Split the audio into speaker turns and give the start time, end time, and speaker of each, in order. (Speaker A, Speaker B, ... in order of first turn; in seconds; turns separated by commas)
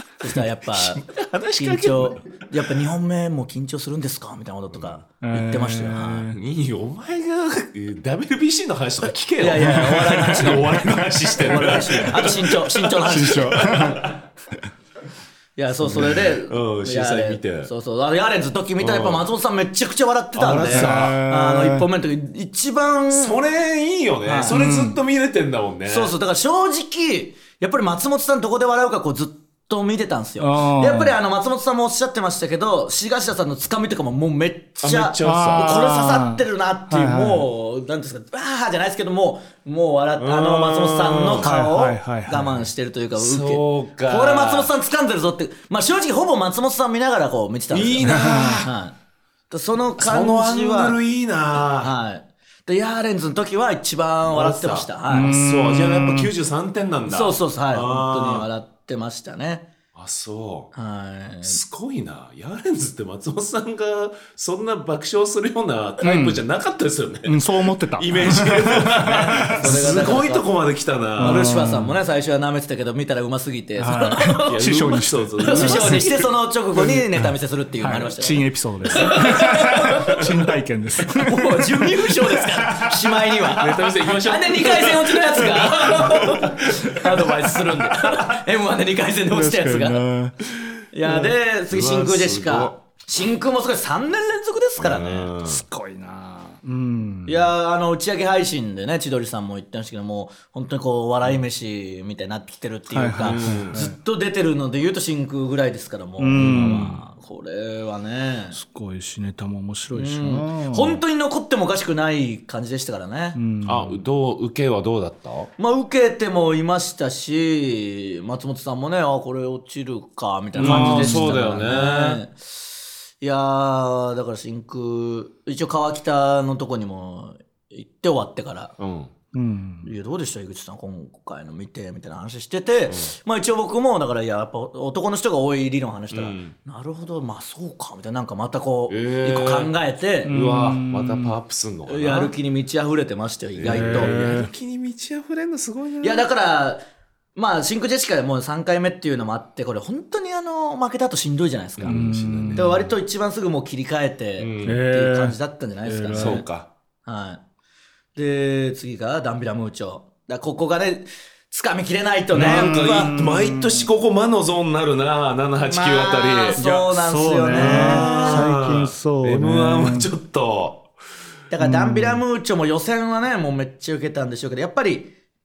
Speaker A: 0.2-1.1, Speaker B: 0.7-2.2, Speaker A: 1.6-6.3, Speaker B: 4.7-5.0, Speaker C: 5.2-6.4, Speaker B: 6.3-14.2, Speaker A: 9.4-13.6, Speaker C: 9.6-12.0, Speaker C: 13.0-14.2, Speaker A: 15.6-23.4, Speaker B: 15.8-17.7, Speaker B: 18.8-19.3, Speaker B: 20.3-21.2, Speaker C: 20.7-21.9, Speaker B: 23.1-26.1, Speaker A: 24.2-24.6, Speaker C: 24.5-25.0, Speaker A: 25.9-49.0, Speaker C: 30.4-31.2, Speaker B: 34.8-35.8, Speaker C: 35.2-37.5, Speaker B: 40.2-41.5, Speaker C: 41.4-42.6, Speaker B: 43.1-44.7, Speaker B: 47.7-48.7, Speaker C: 48.1-48.7, Speaker A: 49.5-51.0, Speaker B: 50.0-51.9, Speaker A: 51.8-55.4, Speaker B: 54.3-58.5, Speaker C: 55.1-56.3, Speaker A: 57.1-59.7, Speaker B: 59.9-60.7, Speaker A: 60.7-61.6, Speaker B: 61.4-71.5, Speaker C: 66.0-66.4, Speaker C: 67.3-70.0, Speaker A: 68.9-70.5, Speaker C: 71.2-72.0, Speaker A: 71.2-74.6, Speaker C: 73.8-76.1, Speaker B: 74.5-76.3, Speaker A: 75.4-80.3, Speaker C: 76.8-83.6, Speaker A: 81.1-90.0, Speaker B: 83.6-87.9, Speaker C: 89.3-90.4, Speaker A: 90.9-95.3, Speaker B: 91.7-92.8, Speaker B: 94.8-95.6, Speaker C: 95.5-97.5, Speaker A: 97.3-108.6, Speaker C: 102.9-104.0, Speaker B: 103.2-103.8, Speaker C: 106.2-107.0, Speaker B: 106.4-106.9, Speaker C: 108.5-111.0, Speaker A: 109.9-113.4, Speaker C: 113.4-114.0, Speaker B: 113.7-115.5, Speaker A: 115.6-122.4, Speaker B: 120.6-122.2, Speaker C: 120.6-121.5, Speaker A: 123.2-128.7, Speaker B: 128.8-129.1, Speaker C: 129.3-129.9, Speaker A: 129.8-140.3, Speaker B: 136.1-136.6, Speaker B: 138.9-139.7, Speaker C: 140.3-141.4, Speaker B: 140.3-142.3, Speaker A: 141.9-144.2, Speaker B: 143.6-146.3, Speaker C: 143.7-144.5, Speaker A: 146.0-146.8, Speaker A: 147.3-156.5, Speaker B: 151.8-152.7, Speaker C: 151.8-152.9, Speaker B: 154.4-154.8, Speaker C: 154.6-156.4, Speaker B: 156.1-156.7, Speaker A: 157.1-157.4, Speaker A: 158.2-163.1, Speaker C: 162.3-163.9, Speaker B: 162.3-166.6, Speaker A: 165.7-168.4, Speaker C: 166.6-170.1, Speaker B: 167.5-170.9, Speaker A: 171.5-175.1, Speaker C: 171.6-172.2